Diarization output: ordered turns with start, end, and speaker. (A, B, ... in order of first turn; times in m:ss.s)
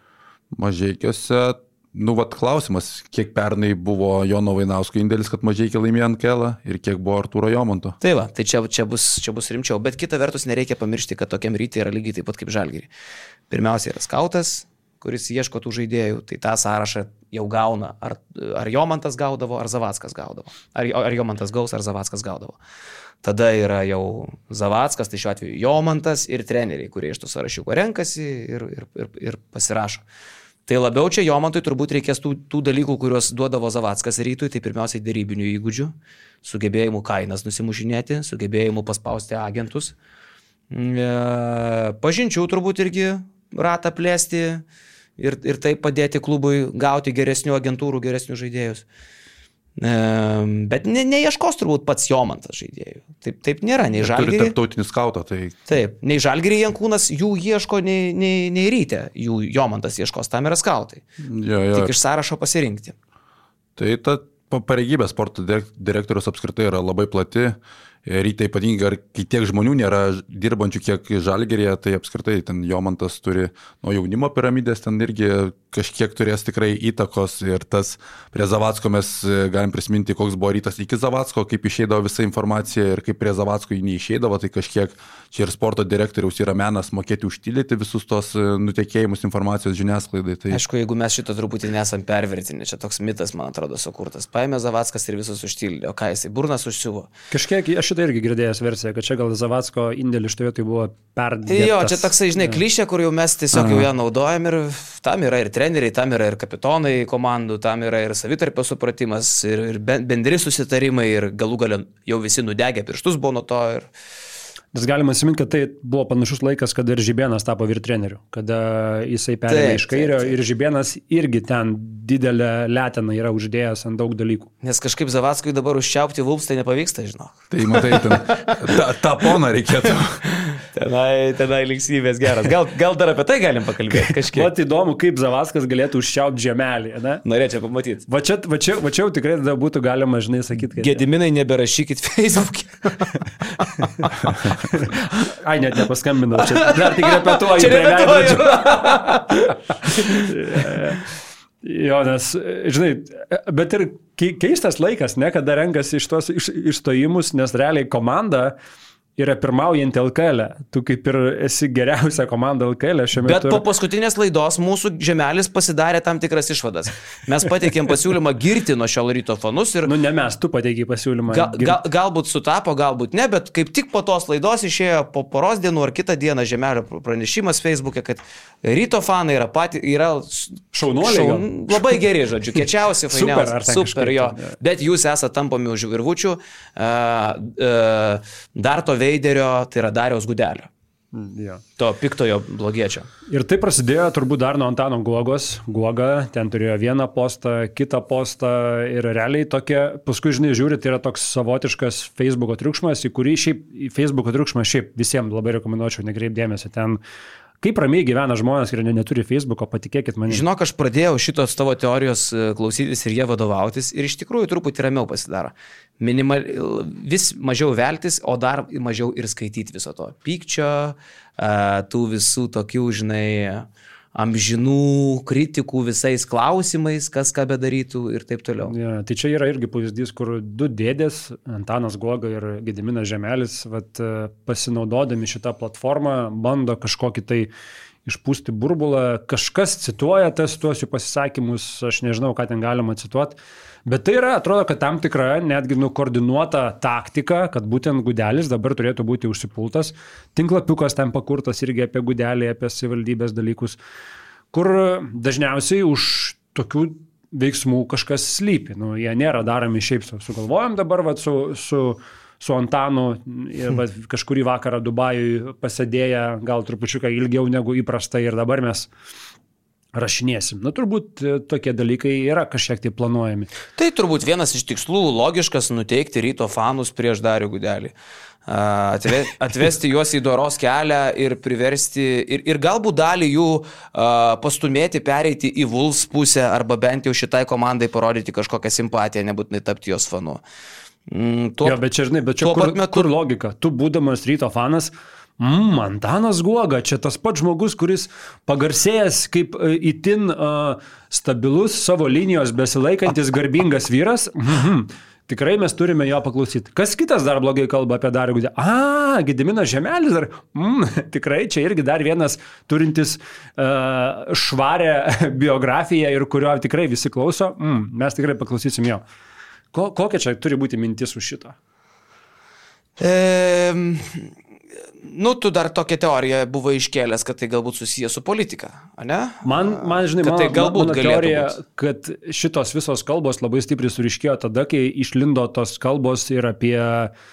0:00.5-0:08.0 A
0:08.0-0:12.9 B
0:13.5-0:22.6 B
0:23.2-0:30.0 B
0:30.7-0:39.9 B
0:40.7-0:44.6 B
0:45.2-0:48.8 B
0:49.8-0:54.6 B
0:54.0-0:55.6 A
0:55.7-1:01.0 B
1:01.2-1:01.9 A
1:01.7-1:02.9 B
1:03.8-1:30.6 A
1:30.5-1:37.1 B
1:37.3-1:42.6 C
1:41.5-1:53.9 B
1:43.5-1:43.9 A
1:54.7-2:04.5 C
1:59.5-2:00.4 B
2:04.6-2:08.8 B
2:07.5-2:10.2 A
2:10.3-2:14.5 B
2:14.0-2:17.2 C
2:17.2-2:18.0 B
2:18.1-2:21.0 C
2:20.7-2:24.8 B
2:24.7-2:31.0 C
2:26.5-2:30.3 B
2:31.6-2:38.6 C
2:39.2-2:43.6 C
2:43.2-2:49.9 B
2:49.8-2:51.8 C
2:51.3-3:10.7 B
3:00.7-3:02.0 C
3:02.6-3:04.6 C
3:11.1-3:11.6 C
3:11.8-3:13.1 B
3:13.3-3:27.0 C
3:27.6-3:30.4 C
3:30.3-3:48.7 B
3:48.7-3:57.5 C
3:58.0-4:13.8 C
4:14.5-4:28.9 C
4:29.9-4:33.5 C
4:33.8-4:37.9 B
4:38.5-4:50.4 B
4:51.1-4:51.8 B
4:51.6-5:19.0 C
4:52.4-4:53.1 B
5:19.7-5:21.6 C
5:23.0-5:24.3 B
5:25.0-5:31.6 B
5:29.4-5:37.1 C